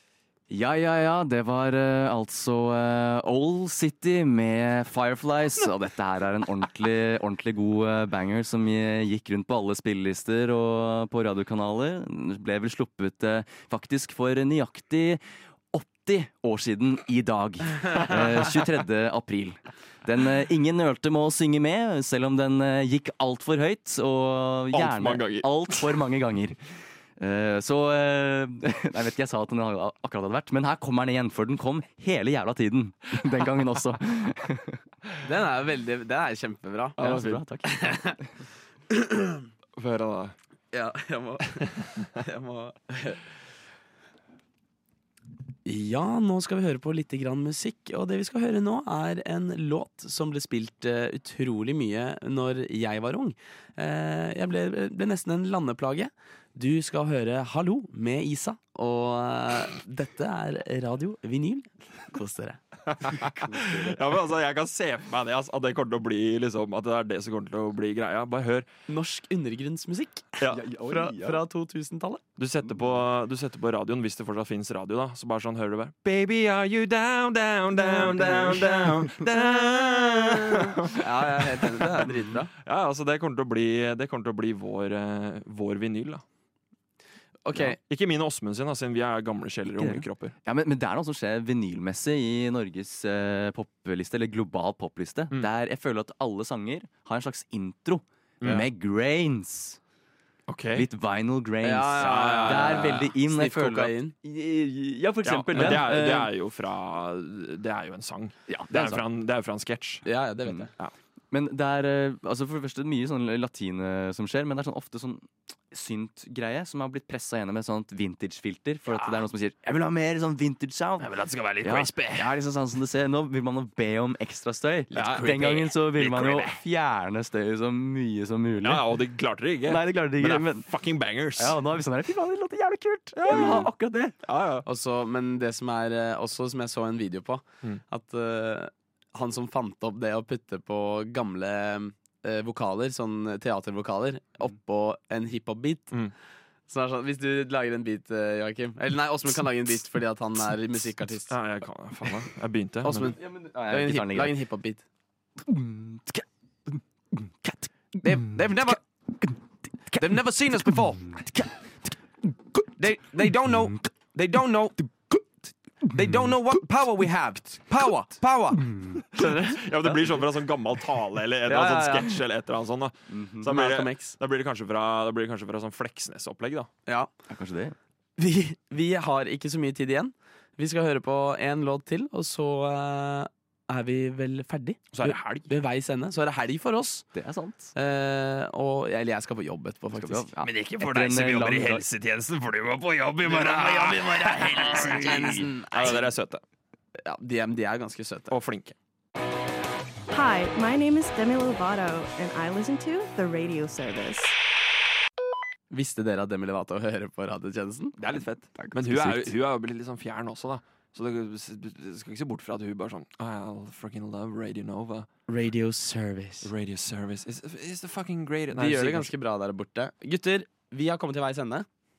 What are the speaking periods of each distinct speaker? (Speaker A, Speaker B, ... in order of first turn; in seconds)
Speaker A: 0.5-15.2, 15.7-26.6, 27.2-34.8, 37.0-38.3, 63.4-64.0, 70.5-71.4, 72.6-73.0, 77.9-78.6, 89.7-99.8, 100.8-106.3, 108.5-109.0, 111.3-129.0, 129.6-130.7, 131.4-134.2, 153.2-154.4, 155.4-157.7, 173.1-173.6, 177.3-177.8, 187.1-187.7, 189.9-191.9, 194.5-195.4, 208.1-209.3
Speaker B: 24.7-26.0, 39.8-40.4, 62.9-68.7, 72.4-86.2, 87.6-90.3, 98.4-98.7, 100.5-100.9, 102.0-103.0, 105.2-110.0, 118.9-119.2, 121.0-122.3, 124.9-126.6, 128.6-131.6, 133.1-133.7, 134.2-134.7, 151.3-153.2, 169.2-176.7, 184.9-185.5, 190.4-196.4, 198.3-198.8, 208.0-215.1, 216.4-219.1
Speaker C: 35.2-38.2, 38.9-39.4, 40.7-43.2, 45.6-62.6, 68.9-72.2, 77.9-82.5, 87.5-87.8, 101.6-104.1, 105.5-105.8, 110.0-110.7, 133.3-133.6, 134.7-145.9, 146.7-151.4, 152.8-154.8, 158.0-158.8, 159.9-161.2, 162.8-165.2, 165.8-170.2, 171.5-172.2, 173.5-174.2, 178.2-187.1, 187.8-190.3, 193.2-196.1, 197.0-198.3, 205.7-207.9, 215.3-216.5, 218.5-221.7
Speaker D: 200.1-204.3